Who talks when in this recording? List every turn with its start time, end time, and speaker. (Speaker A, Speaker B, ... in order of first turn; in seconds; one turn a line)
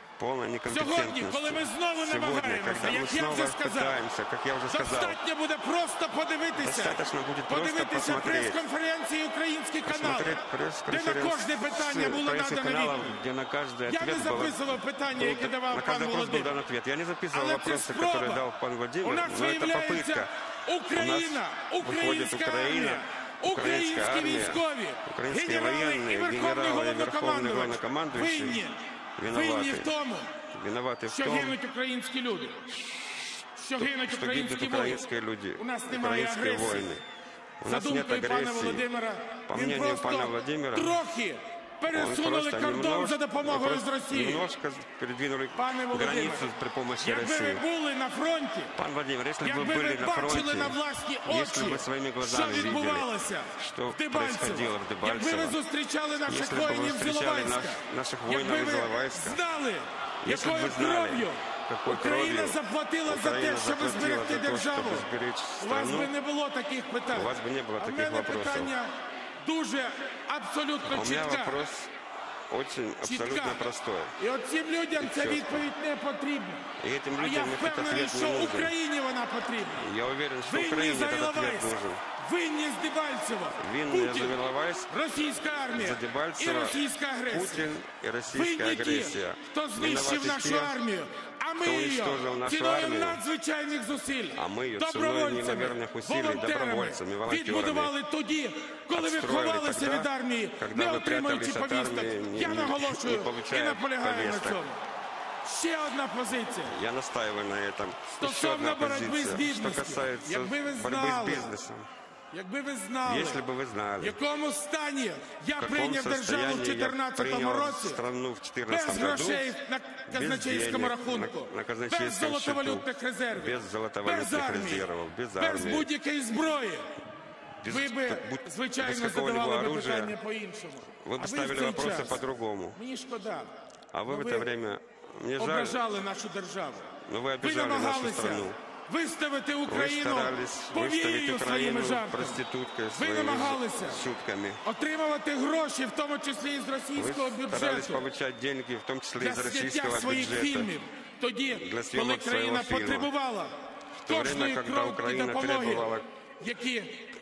Speaker A: 0.2-5.2
Speaker B: 0.7-4.0
Speaker B: 4.7-13.1
Speaker A: 6.6-8.6
Speaker A: 9.8-20.3
Speaker B: 13.9-16.5
Speaker B: 17.3-18.4
Speaker B: 19.0-30.3
Speaker A: 20.9-28.6
Speaker A: 29.2-29.9
Speaker A: 30.5-31.6
Speaker B: 31.1-32.6
Speaker A: 32.7-37.0
Speaker B: 33.6-35.0
Speaker B: 35.6-36.9
Speaker A: 37.6-38.9
Speaker B: 37.6-44.4
Speaker A: 39.5-41.0
Speaker A: 41.9-47.6
Speaker B: 45.5-46.5
Speaker B: 47.0-48.7
Speaker A: 48.8-55.6
Speaker B: 49.4-65.0
Speaker A: 56.3-59.4
Speaker A: 60.2-66.1
Speaker B: 65.6-68.9
Speaker A: 67.1-68.7
Speaker B: 69.4-71.6
Speaker A: 70.9-71.9
Speaker A: 72.5-74.2
Speaker B: 73.0-73.7
Speaker B: 74.2-79.9
Speaker A: 75.0-75.7
Speaker A: 76.8-78.7
Speaker A: 79.8-82.0
Speaker B: 80.4-84.4
Speaker A: 83.6-84.9
Speaker B: 84.9-87.6
Speaker A: 85.7-90.7
Speaker B: 88.3-104.8
Speaker A: 91.6-93.2
Speaker A: 94.3-97.9
Speaker A: 98.9-104.6
Speaker B: 105.4-106.7
Speaker A: 106.7-111.9
Speaker B: 108.2-111.5
Speaker B: 112.3-113.4
Speaker A: 113.0-114.2
Speaker B: 114.0-118.0
Speaker A: 115.6-119.5
Speaker B: 118.7-126.9
Speaker A: 120.1-125.9
Speaker A: 127.6-130.1
Speaker B: 127.7-132.2
Speaker A: 131.0-132.8
Speaker B: 132.7-133.5
Speaker A: 133.9-135.8
Speaker B: 134.1-134.5
Speaker B: 135.4-142.4
Speaker A: 137.1-138.6
Speaker A: 139.7-144.6
Speaker B: 142.9-144.0
Speaker B: 144.6-148.0
Speaker A: 146.9-150.7
Speaker B: 149.2-153.5
Speaker A: 151.5-153.1
Speaker A: 154.0-156.1
Speaker B: 154.1-157.1